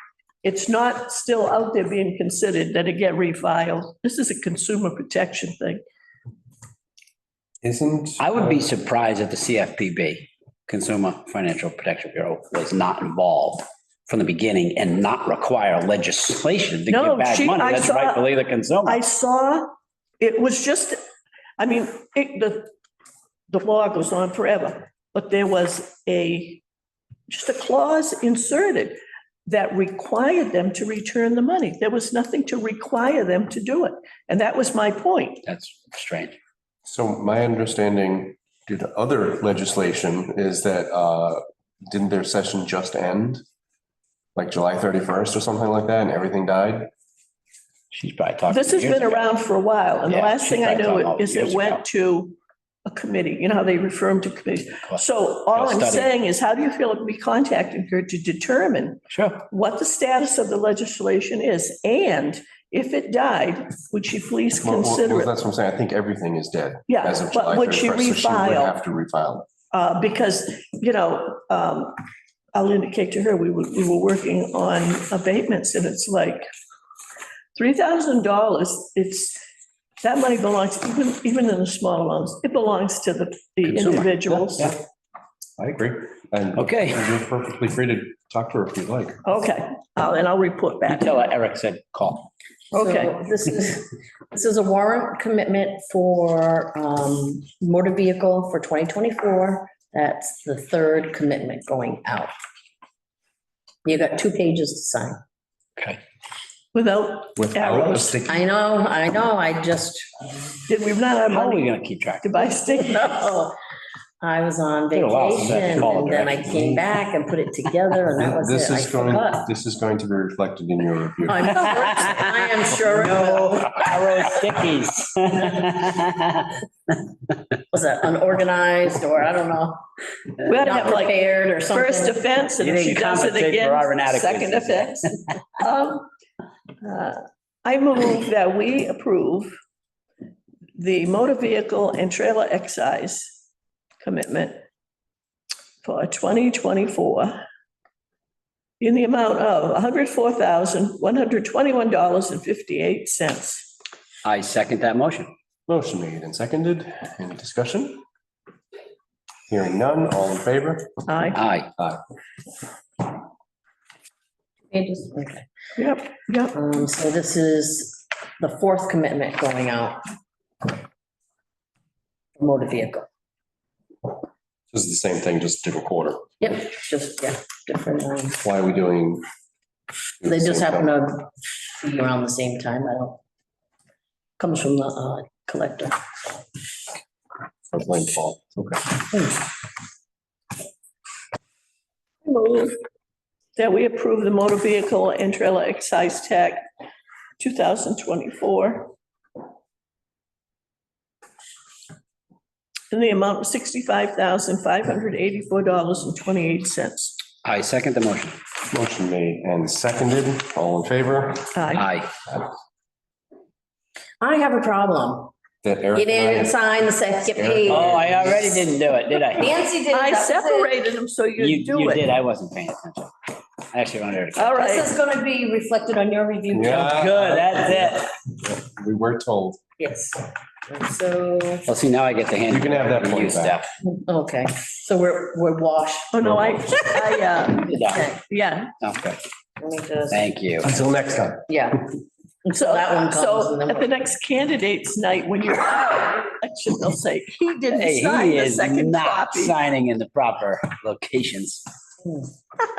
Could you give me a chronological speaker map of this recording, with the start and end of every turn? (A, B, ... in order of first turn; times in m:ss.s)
0:00.4-0:05.8 A
0:07.6-0:08.4 B
0:08.2-0:19.0 C
0:16.9-0:18.3 A
0:18.8-0:21.0 A
0:21.6-0:22.7 A
0:23.5-0:26.6 A
0:27.3-0:35.4 A
0:35.4-0:36.4 C
0:36.8-0:43.4 B
0:44.4-0:46.9 B
0:47.9-0:49.3 C
0:48.5-1:05.3 A
0:50.0-0:51.8 C
0:54.8-0:56.1 C
0:59.1-0:59.4 C
1:04.6-1:09.5 B
1:06.9-1:08.7 A
1:09.7-1:12.0 A
1:12.5-1:16.5 A
1:17.5-1:19.4 A
1:20.0-1:24.7 A
1:23.6-1:24.7 C
1:25.6-1:29.2 B
1:26.5-1:27.0 C
1:29.2-1:31.1 A
1:30.9-1:32.3 C
1:32.7-1:33.3 A
1:32.7-1:42.3 D
1:43.8-1:45.2 D
1:46.7-1:48.2 A
1:47.4-1:48.4 B
1:48.2-1:50.6 D
1:50.7-1:53.3 A
1:51.3-1:52.3 C
1:52.7-1:53.5 D
1:54.2-1:59.4 D
1:54.9-1:56.4 C
1:55.9-1:56.8 B
1:58.2-2:01.8 B
2:01.3-2:03.8 D
2:01.6-2:06.6 C
2:07.7-2:09.8 D
2:10.4-2:11.2 A
2:10.5-2:12.2 D
2:11.7-2:16.1 A
2:12.6-2:15.0 C
2:16.8-2:19.5 A
2:20.8-2:23.4 A
2:24.0-2:24.6 A
2:25.8-2:27.4 A
2:28.8-2:33.7 A
2:34.2-2:35.3 C
2:35.7-2:38.0 B
2:39.5-2:41.0 B
2:41.1-2:41.4 A
2:41.3-2:41.7 C
2:44.7-2:45.4 D
2:45.8-2:46.6 A
2:46.5-2:50.0 D
2:52.4-2:53.1 D
2:54.7-2:56.3 B
2:56.4-2:58.4 D
2:58.4-2:59.2 B
3:00.2-3:00.9 B
3:00.2-3:03.2 D
3:04.4-3:06.0 D
3:07.7-3:09.0 B
3:12.2-3:12.8 A
3:13.6-3:16.6 A
3:17.4-3:18.9 A
3:22.9-3:27.2 A
3:27.4-3:28.4 C
3:28.7-3:31.5 B
3:31.5-3:31.9 A
3:31.7-3:32.1 C
3:34.2-3:35.3 D
3:35.6-3:36.6 B
3:35.9-3:38.4 D
3:37.3-3:38.5 B
3:37.7-3:39.5 C
3:39.4-3:40.7 D
3:39.9-3:42.1 A
3:41.4-3:43.1 C
3:43.7-3:44.6 C
3:44.4-3:44.9 A
3:44.5-3:47.2 D
3:46.5-3:49.6 B
3:46.8-3:48.1 C
3:49.8-3:51.7 D
3:51.6-3:53.6 C
3:52.5-3:53.6 B
3:53.8-3:56.3 D
3:56.1-3:58.7 A
3:57.6-3:58.1 C
3:57.8-3:58.2 D
3:58.8-3:59.2 C
3:59.6-4:00.2 D
4:00.1-4:00.7 C
4:00.6-4:01.5 B
4:01.5-4:01.9 D
4:02.4-4:03.9 D
4:02.5-4:09.5 A
4:07.7-4:11.6 C